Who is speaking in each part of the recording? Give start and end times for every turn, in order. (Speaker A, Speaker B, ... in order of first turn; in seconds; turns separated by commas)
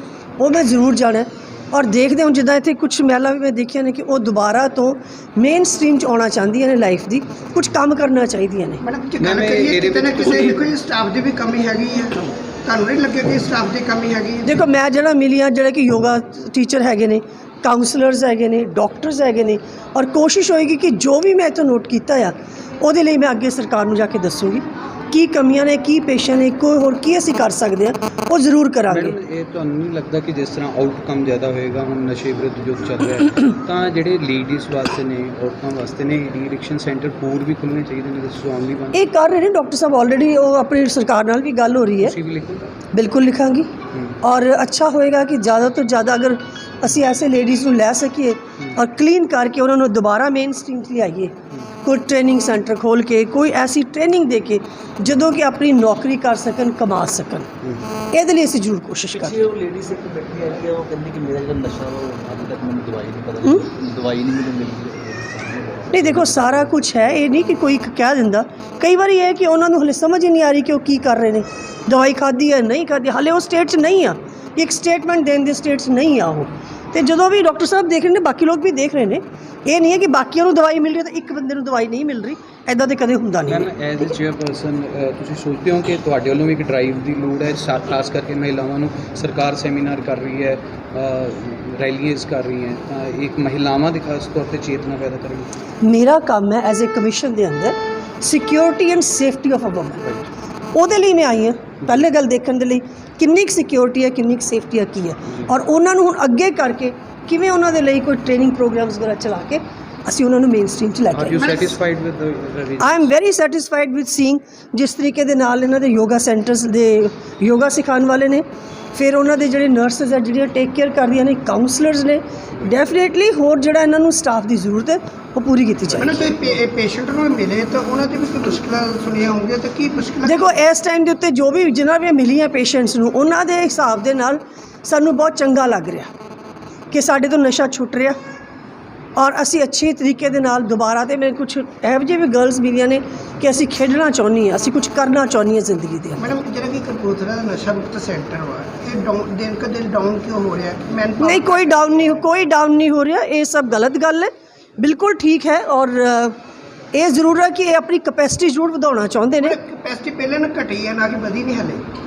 Speaker A: 0.4-8.8, Speaker B: 8.8-14.5, Speaker C: 9.2-10.6, Speaker A: 14.4-29.2, Speaker C: 28.9-39.0, Speaker A: 38.9-42.2, Speaker C: 42.0-42.7, Speaker A: 42.9-57.5, Speaker C: 57.6-57.9, Speaker A: 58.1-59.5, Speaker D: 59.1-67.0, Speaker A: 65.9-83.7, Speaker C: 83.5-95.5, Speaker A: 95.8-100.1, Speaker A: 100.7-111.4, Speaker C: 111.1-113.1, Speaker B: 111.4-111.7, Speaker A: 112.8-126.2, Speaker B: 126.0-130.5, Speaker A: 130.2-136.1, Speaker A: 136.9-138.2, Speaker A: 139.2-146.2, Speaker B: 146.2-151.5, Speaker A: 151.2-156.4, Speaker A: 156.9-159.6, Speaker B: 159.4-161.8